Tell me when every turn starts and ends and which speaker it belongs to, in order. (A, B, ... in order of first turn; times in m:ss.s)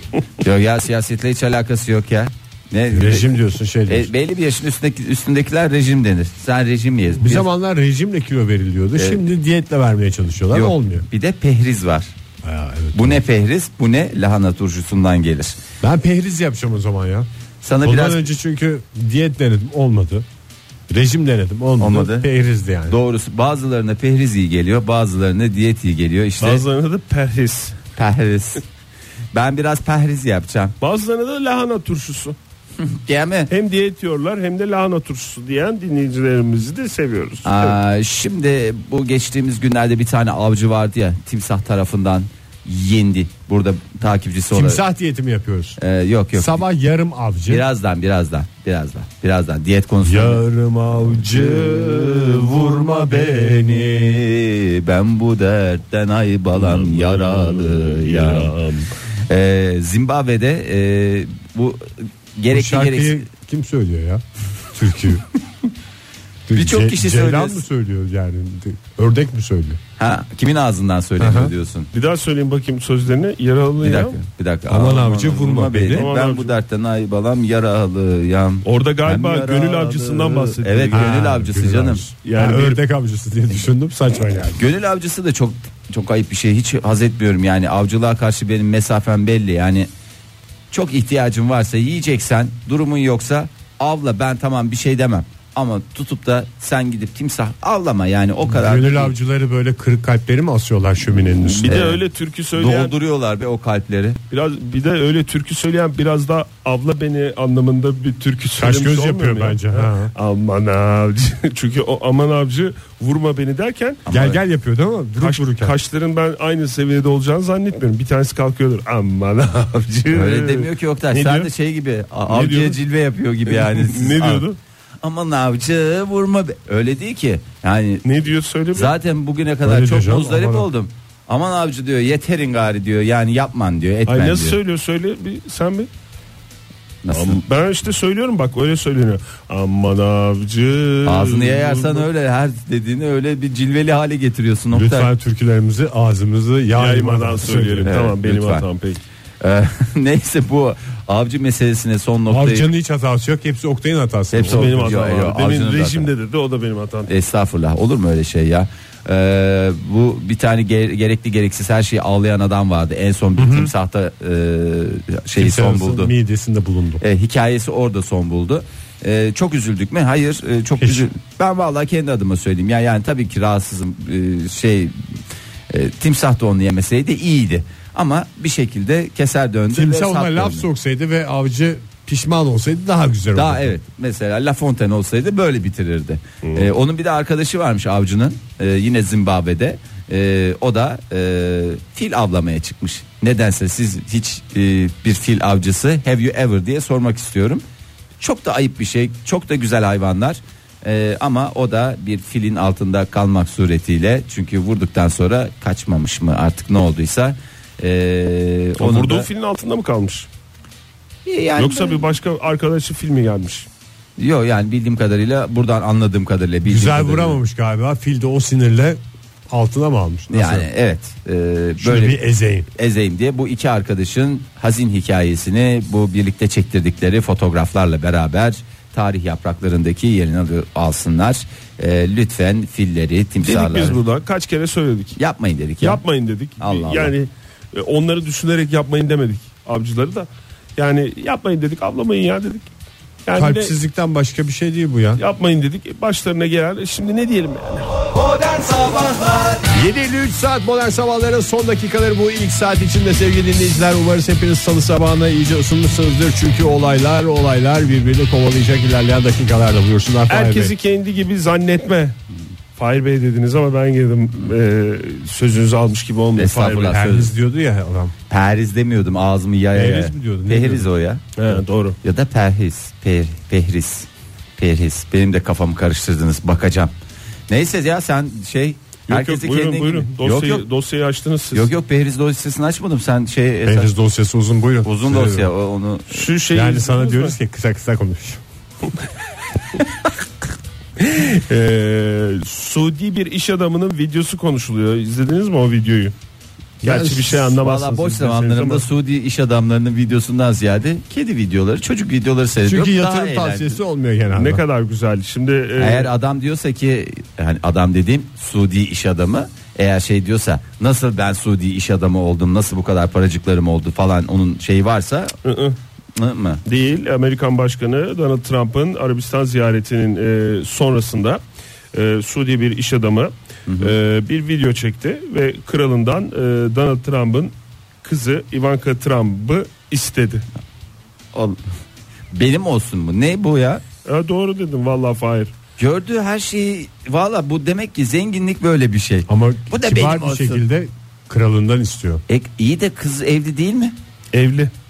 0:00.4-0:03.4 A
0:02.9-0:04.1 B
0:03.9-0:07.5 A
0:07.2-0:11.0 B
0:09.0-0:09.2 A
0:10.5-0:12.1 A
0:12.4-0:13.2 B
0:12.9-0:15.6 A
0:15.8-0:17.3 B
0:17.6-0:18.2 A
0:17.8-0:20.2 B
0:20.9-0:23.0 B
0:21.8-0:22.3 A
0:22.9-0:26.6 A
0:26.4-0:27.8 C
0:28.0-0:28.6 A
0:29.3-0:30.7 A
0:30.8-0:32.4 C
0:32.8-0:33.5 A
0:33.5-0:37.8 C
0:37.4-0:44.8 A
0:44.5-0:45.8 B
0:45.8-0:46.5 A
0:46.3-0:47.6 B
0:47.5-0:50.4 A
0:50.0-0:54.2 B
0:51.2-0:58.5 A
0:56.6-0:58.9 C
0:59.3-1:03.2 A
1:02.5-1:05.2 B
1:06.5-1:09.8 B
1:06.5-1:07.6 A
1:10.0-1:11.9 A
1:11.2-1:11.5 B
1:11.9-1:14.2 C
1:13.8-1:22.0 A
1:14.7-1:16.1 B
1:15.9-1:16.5 C
1:18.6-1:21.2 C
1:20.9-1:24.6 B
1:22.2-1:22.8 C
1:24.6-1:29.9 A
1:30.7-1:39.1 A
1:38.4-1:41.9 B
1:41.4-1:42.9 C
1:41.6-1:42.0 A
1:42.5-1:44.2 A
1:44.3-1:54.0 C
1:48.6-1:50.1 B
1:54.0-1:54.4 A
1:54.1-1:55.7 B
1:55.2-2:01.5 C
2:00.1-2:04.4 A
2:02.3-2:02.8 C
2:03.4-2:04.6 C
2:05.0-2:08.0 A
2:08.0-2:08.9 C
2:08.7-2:14.6 A
2:09.6-2:10.7 B
2:14.1-2:15.9 C
2:17.0-2:17.4 A
2:17.1-2:22.1 C
2:21.0-2:25.1 A
2:24.7-2:27.9 B
2:26.8-2:29.0 C
2:27.8-2:28.6 A
2:29.4-2:32.7 A
2:32.3-2:34.9 B
2:34.3-2:36.1 A
2:34.4-2:37.1 C
2:37.1-2:46.1 A
2:43.4-2:43.7 B
2:45.4-2:47.0 B
2:47.0-2:54.9 A
2:50.8-2:51.1 B
2:55.7-3:00.7 A
2:59.7-3:03.7 B
3:03.3-3:17.6 A
3:18.2-3:29.3 A
3:28.8-3:30.3 C
3:31.2-3:32.0 A
3:31.6-3:33.7 C
3:34.2-3:37.4 A
3:36.7-3:40.7 B
3:40.3-3:42.2 A
3:41.8-3:42.7 B
3:42.7-3:54.0 A
3:53.4-3:55.2 C
3:55.2-3:56.0 A
3:55.8-4:02.7 C
3:56.6-3:57.1 A
4:03.2-4:03.7 C
4:03.4-4:05.2 B
4:05.2-4:08.2 C
4:09.7-4:20.7 B
4:20.3-4:22.2 C
4:22.8-4:27.1 C
4:26.4-4:27.3 A
4:26.9-4:28.1 B
4:28.3-4:31.2 A
4:29.7-4:30.9 B
4:31.4-4:32.0 C
4:32.0-4:36.9 A
4:37.5-4:40.6 A
4:39.1-4:41.7 C
4:41.5-4:43.9 A
4:43.6-4:45.5 B
4:44.8-4:46.3 A
4:46.1-4:47.3 C
4:46.5-4:48.4 B
4:51.0-4:56.1 C
4:56.8-4:57.4 B
4:56.8-4:58.8 C
4:57.5-5:03.8 A
5:02.6-5:04.6 B
5:04.3-5:06.1 C
5:05.8-5:15.3 A
5:15.4-5:15.8 C
5:16.2-5:16.6 A
5:16.6-5:21.4 C
5:21.9-5:27.5 C
5:23.7-5:23.9 A
5:28.0-5:30.4 C
5:31.3-5:31.6 A
5:32.3-5:33.8 A
5:34.0-5:35.5 C
5:35.8-5:40.6 A
5:39.3-5:42.2 B
5:42.3-5:44.0 A
5:44.3-5:44.7 C